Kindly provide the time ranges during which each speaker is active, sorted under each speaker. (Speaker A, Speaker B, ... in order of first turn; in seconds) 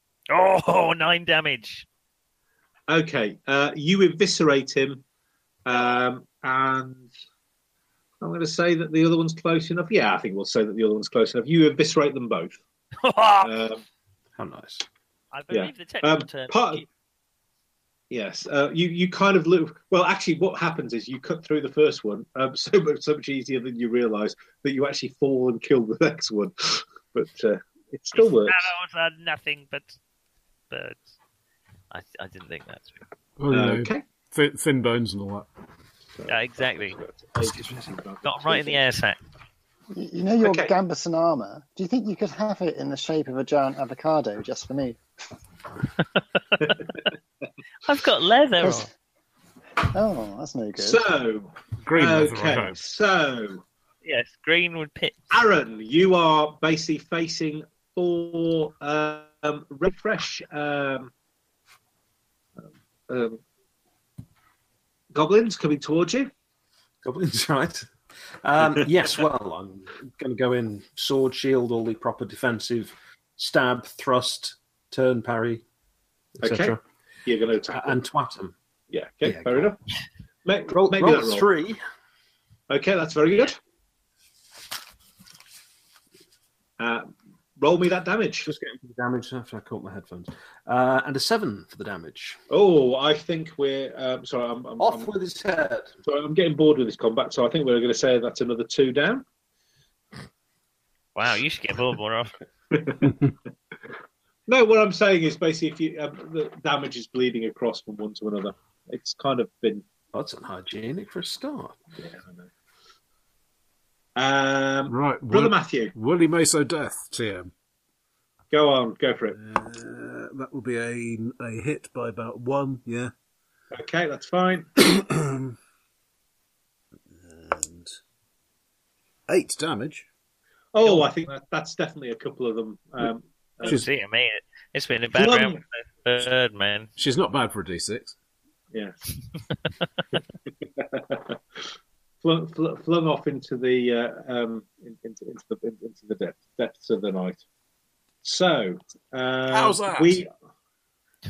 Speaker A: 0.3-1.9, 13.0-13.5, 15.3-16.8, 28.1-30.0, 30.7-31.0, 31.9-33.0, 36.3-37.0, 38.2-39.2, 46.1-46.7, 47.8-48.9, 54.0-55.3, 101.1-102.4, 133.6-136.9
Speaker B: 2.9-5.0, 5.6-7.1, 8.2-12.6, 13.4-13.8, 15.5-16.8, 18.1-28.7, 33.5-34.0, 36.2-38.8, 40.4-40.7, 50.8-53.6, 55.3-61.1, 63.1-63.4, 65.1-66.3, 76.4-78.0, 78.9-79.8, 80.4-81.5, 82.7-83.6, 86.8-88.5, 92.5-95.1, 96.0-99.2, 102.7-103.2, 104.5-109.8, 112.0-112.5, 114.2-115.9, 118.5-119.4, 123.7-124.7, 130.7-133.8, 135.1-135.6, 138.7-139.0, 140.8-141.4, 142.2-147.4, 148.2-150.3
Speaker C: 14.3-14.8, 67.0-67.9, 68.4-75.6, 76.4-76.8, 77.7-78.5, 79.2-79.7, 80.7-81.8, 88.4-92.4, 94.8-95.9, 110.1-111.8
Speaker D: 33.4-35.5, 51.8-52.9, 114.9-117.5, 119.3-123.1, 124.8-125.5, 127.1-127.9, 129.3-130.1, 137.0-138.1, 149.5-150.2
Speaker E: 39.9-45.0, 48.6-48.9, 49.9-51.0